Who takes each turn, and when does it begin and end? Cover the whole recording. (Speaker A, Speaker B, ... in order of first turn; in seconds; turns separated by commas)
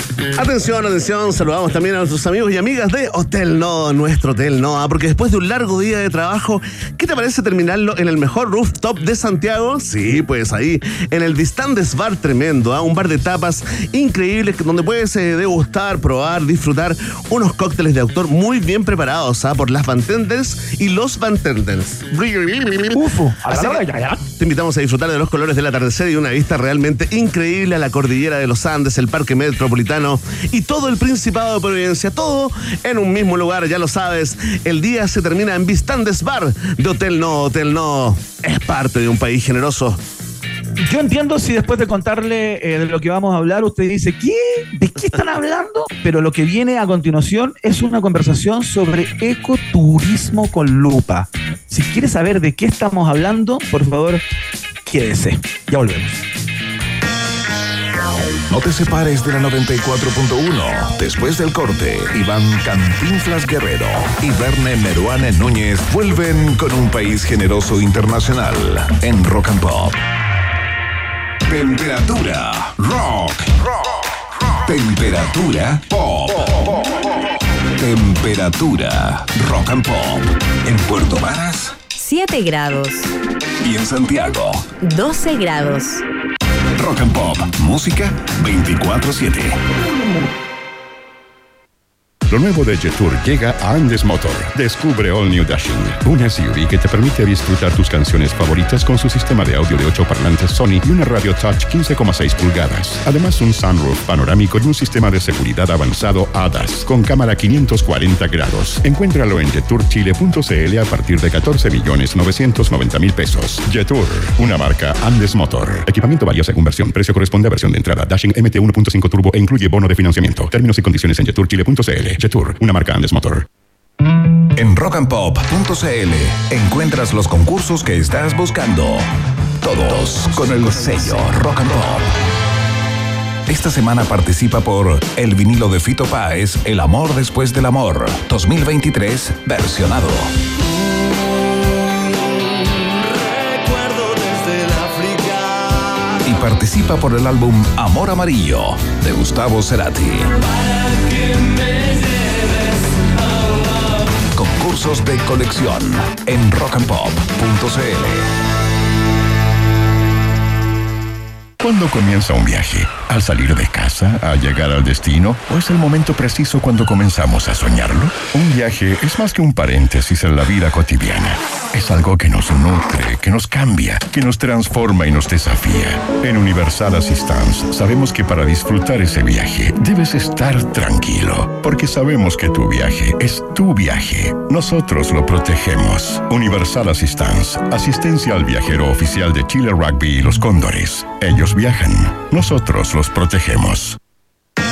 Speaker A: 0.3-40.0, Speaker B: 22.9-24.2, Speaker B: 40.8-54.2, Speaker B: 54.8-56.2, Speaker C: 58.5-70.0, Speaker C: 71.5-73.6, Speaker C: 74.6-77.0, Speaker C: 77.7-81.8, Speaker D: 81.9-83.1, Speaker C: 83.6-84.6, Speaker D: 84.8-86.0, Speaker C: 86.7-89.6, Speaker E: 92.3-123.4, Speaker C: 124.5-129.0, Speaker C: 129.6-132.1, Speaker C: 133.4-140.3, Speaker A: 142.9-146.2, Speaker C: 146.2-150.5, Speaker C: 154.3-158.3, Speaker E: 161.6-194.0